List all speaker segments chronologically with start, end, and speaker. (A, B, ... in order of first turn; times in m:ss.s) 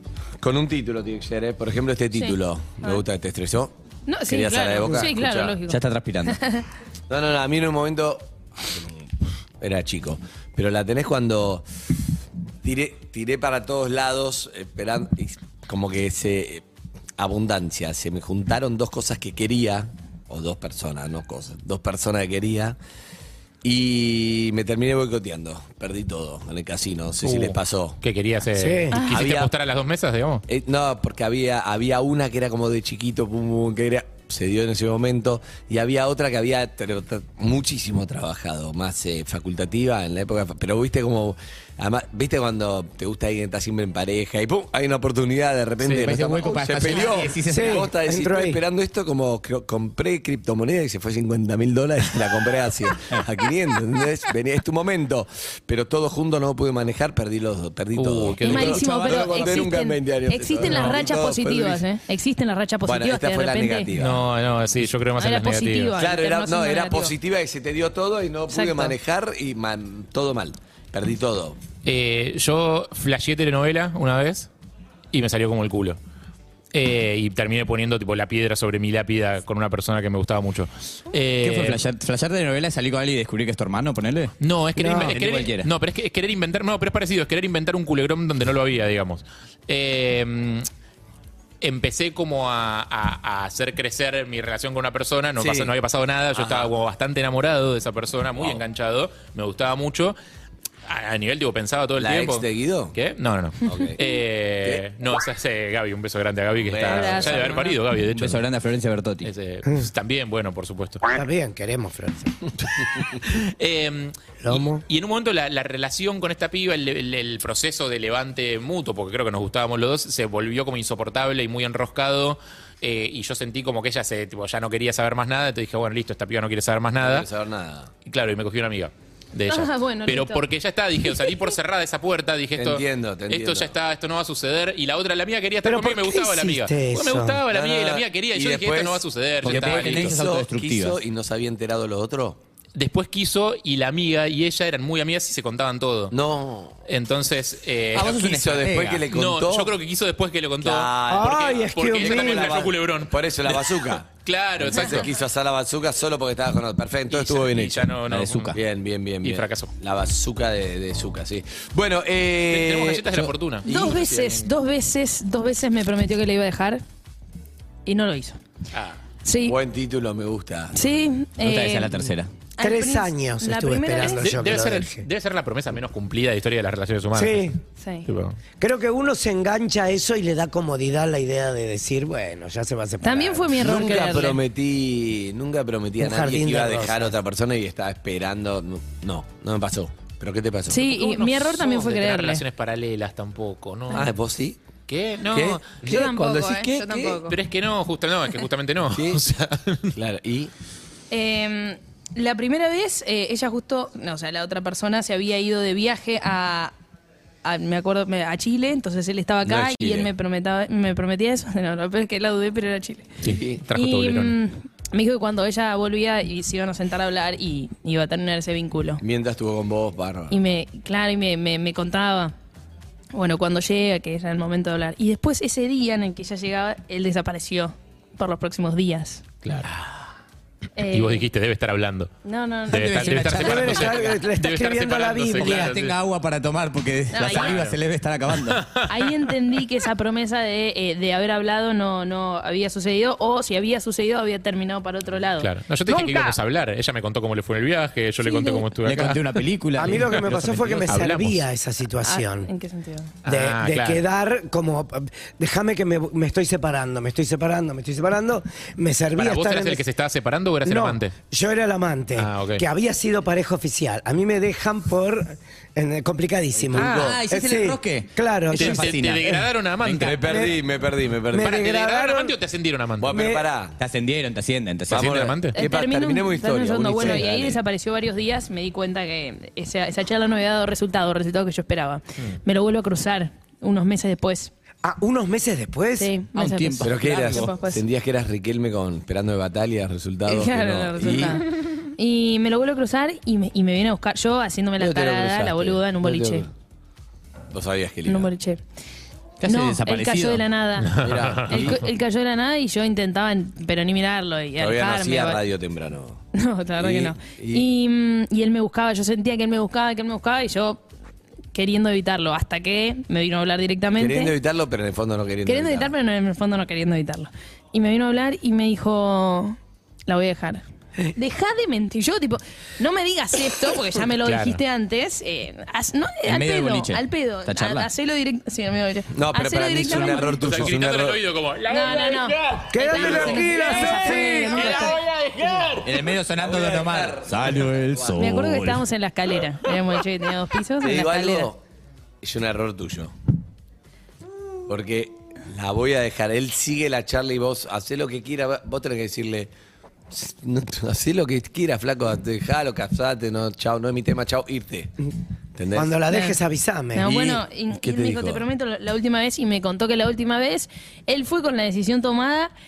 0:00.4-0:03.8 A
0:02.1-0:03.0 B
0:04.1-0:06.6 B
0:04.3-0:05.6 A
0:05.7-0:06.4 C
0:07.1-0:09.0 A
0:09.6-0:11.7 A
0:12.6-0:16.6 A
0:17.2-0:22.8 A
0:23.6-0:28.0 A
0:27.2-0:30.4 D
0:28.6-0:29.0 E
0:28.9-0:29.2 B
0:29.1-0:29.5 A
0:30.5-1:01.8 A
0:45.9-0:47.9 C
0:47.5-0:48.6 E
0:58.0-0:59.6 D
0:58.4-1:03.9 B
0:58.8-0:59.4 C
1:00.6-1:01.0 D
1:02.8-1:04.3 A
1:04.0-1:06.0 D
1:05.2-1:07.1 B
1:06.0-1:11.6 A
1:08.5-1:09.0 B
1:11.8-1:14.5 D
1:15.1-1:16.0 D
1:16.7-1:21.8 D
1:21.4-1:24.3 C
1:24.4-1:30.7 D
1:24.8-1:25.2 E
1:24.9-1:25.7 C
1:31.6-1:40.2 D
1:35.4-1:35.7 A
1:36.4-1:36.7 A
1:40.9-1:48.4 D
1:42.0-1:43.0 A
1:43.6-1:44.0 A
1:46.6-1:47.7 A
1:46.9-1:47.8 B
1:48.1-1:49.3 C
1:49.2-1:51.0 D
1:51.1-1:52.4 E
1:53.2-2:07.3 D
1:54.4-1:54.8 E
2:07.0-2:07.9 A
2:08.1-2:20.2 D
2:09.5-2:10.4 B
2:12.6-2:13.7 A
2:15.6-2:17.4 E
2:17.5-2:22.4 A
2:19.4-2:21.0 C
2:22.8-2:26.1 D
2:26.1-2:26.8 A
2:26.9-2:35.1 D
2:28.0-2:29.7 A
2:28.2-2:29.0 C
2:30.6-2:38.0 A
2:31.1-2:32.7 E
2:34.8-2:35.0 B
2:37.1-2:38.6 D
2:38.1-2:38.6 C
2:38.5-2:44.5 A
2:39.2-2:39.7 D
2:42.5-2:44.0 D
2:43.7-2:46.8 B
2:47.9-2:48.4 B
2:48.7-2:49.0 D
2:49.2-2:49.6 B
2:49.4-2:51.1 A
2:50.7-2:52.1 B
2:51.4-2:52.3 C
2:52.6-2:54.5 B
2:52.6-2:55.0 E
2:54.1-2:57.5 D
2:57.1-2:57.6 E
2:57.8-2:58.1 B
2:58.1-2:58.4 D
2:58.6-3:03.6 E
3:03.0-3:04.4 B
3:03.5-3:10.8 A
3:06.0-3:07.2 E
3:10.7-3:12.4 B
3:10.8-3:14.1 D
3:13.9-3:14.6 A
3:14.9-3:15.7 D
3:15.3-3:17.2 A
3:15.8-3:17.4 B
3:17.3-3:20.0 D
3:18.9-3:19.2 A
3:20.0-3:20.5 A
3:21.1-3:26.7 B
3:27.4-3:33.1 B
3:29.4-3:30.1 A
3:33.2-3:34.4 D
3:33.2-3:33.6 A
3:33.7-3:39.0 B
3:39.0-3:40.4 A
3:40.3-3:42.3 B
3:43.1-3:49.2 B
3:49.4-3:49.9 D
3:50.8-3:51.2 B
3:50.9-3:52.1 D
3:52.2-3:53.3 B
3:52.7-3:56.0 D
3:52.7-3:54.0 C
3:53.4-3:55.8 E
3:55.4-3:58.6 C
3:57.1-3:57.6 B
3:57.3-3:57.8 D
3:58.3-3:59.2 D
3:58.9-4:06.4 B
4:05.4-4:09.2 D
4:08.2-4:08.6 B
4:08.8-4:10.8 C
4:09.8-4:12.5 E
4:09.8-4:11.4 D
4:12.0-4:13.1 B
4:13.2-4:14.0 D
4:13.3-4:19.8 E
4:19.2-4:21.1 D
4:20.6-4:29.4 E
4:22.2-4:22.6 D
4:26.7-4:27.2 A
4:26.8-4:30.0 C
4:28.5-4:30.5 D
4:30.0-4:31.6 A
4:30.1-4:30.6 E
4:31.3-4:32.4 E
4:31.3-4:33.2 D
4:33.0-4:33.8 A
4:33.1-4:33.4 E
4:33.8-4:35.2 C
4:34.9-4:37.6 A
4:34.9-4:35.6 D
4:35.5-4:44.5 B
4:44.8-4:46.1 E
4:46.0-4:47.8 B
4:46.4-4:47.5 C
4:46.8-4:51.5 A
4:50.3-4:56.5 B
4:54.8-4:56.5 A
4:57.5-4:58.3 A
4:58.1-4:58.6 B
4:59.4-5:00.4 C
4:59.4-5:05.4 B
5:00.8-5:01.7 D
5:01.0-5:01.8 A
5:04.6-5:06.2 A
5:06.4-5:10.8 B
5:06.8-5:07.7 A
5:11.5-5:14.4 B
5:14.0-5:15.9 A
5:15.5-5:20.6 B
5:21.1-5:30.4 B
5:24.2-5:24.6 D
5:26.2-5:27.9 C
5:29.1-5:31.2 A
5:29.8-5:30.7 C
5:30.1-5:35.7 D
5:31.7-5:35.0 B
5:32.7-5:34.8 E
5:35.8-5:38.8 C
5:36.3-5:38.2 A
5:38.2-5:41.5 B
5:40.8-5:41.6 A
5:42.2-5:43.1 A
5:44.7-5:49.5 A
5:50.1-5:54.9 A
5:55.6-5:56.0 A
5:55.7-5:57.3 E
5:56.1-5:56.4 B
5:56.9-6:02.5 B
5:57.0-5:58.4 A